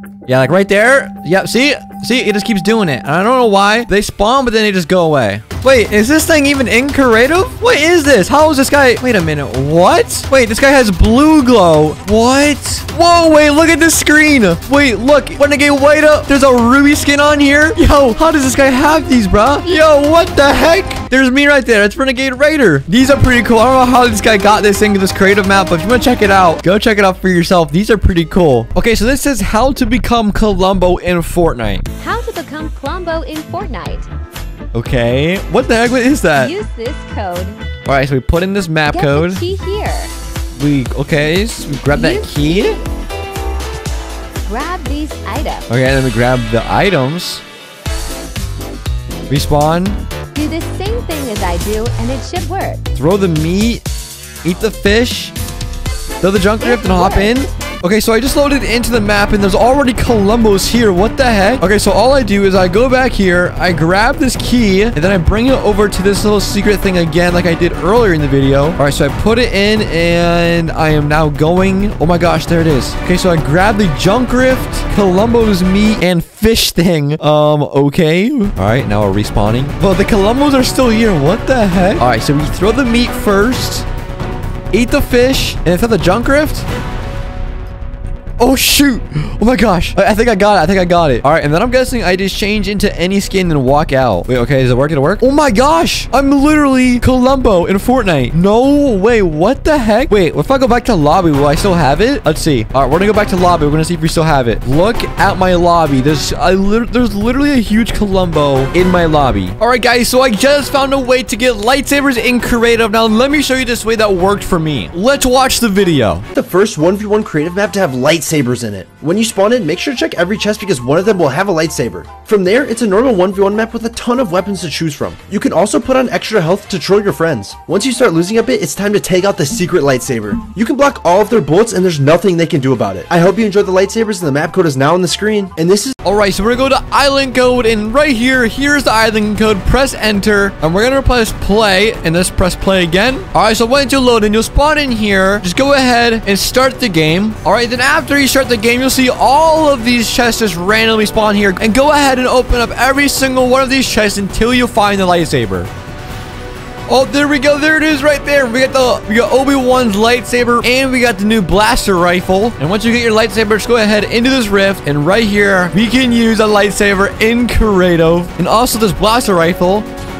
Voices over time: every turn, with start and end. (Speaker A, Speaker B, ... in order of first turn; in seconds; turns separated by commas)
Speaker A: 0.3-31.9, Speaker B: 32.0-34.1, Speaker A: 34.7-36.5, Speaker B: 36.4-37.6, Speaker A: 37.9-39.4, Speaker B: 38.9-40.1, Speaker A: 40.6-42.8, Speaker B: 41.9-42.9, Speaker B: 44.5-45.7, Speaker A: 45.7-47.4, Speaker A: 49.3-50.0, Speaker B: 50.3-52.9, Speaker A: 53.0-53.8, Speaker A: 54.4-55.4, Speaker A: 56.2-83.9, Speaker B: 56.6-57.4, Speaker A: 84.7-86.7, Speaker A: 88.4-116.3, Speaker C: 116.3-135.9, Speaker A: 136.0-155.7, Speaker A: 156.9-169.9